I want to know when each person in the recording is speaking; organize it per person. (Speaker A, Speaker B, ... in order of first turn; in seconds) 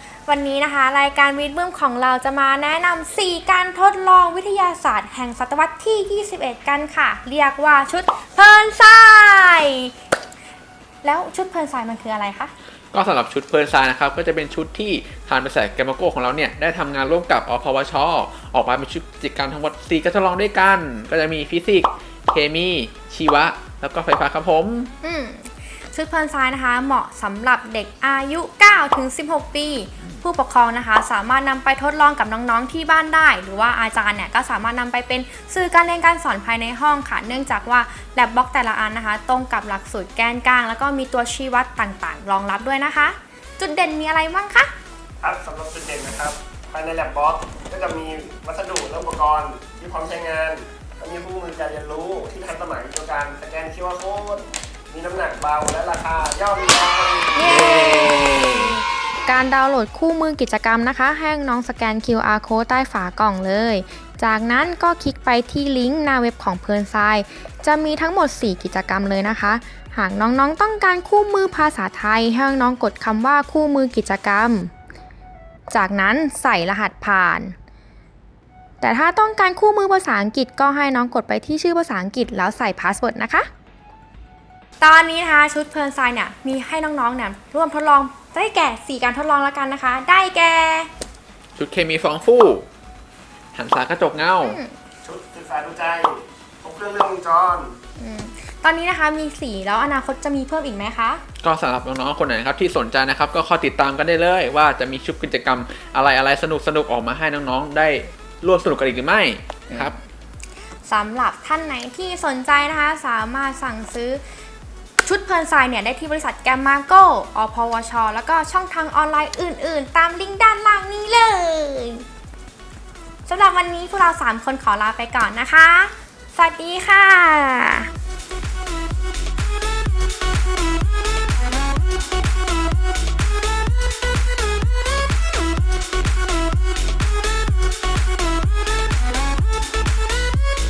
Speaker A: 0.2-9.9, 11.0-12.5, 25.0-44.7, 57.4-74.7, 75.7-77.5, 78.8-83.5, 84.8-90.9, 94.4-94.7, 98.0-101.2, 109.7-109.9, 110.8-114.2, 115.0-122.0, 123.2-127.9
Speaker B: 12.9-24.9, 58.1-58.5, 91.5-92.7, 93.5-94.6, 101.4-109.9
Speaker C: 45.2-57.8, 95.0-97.8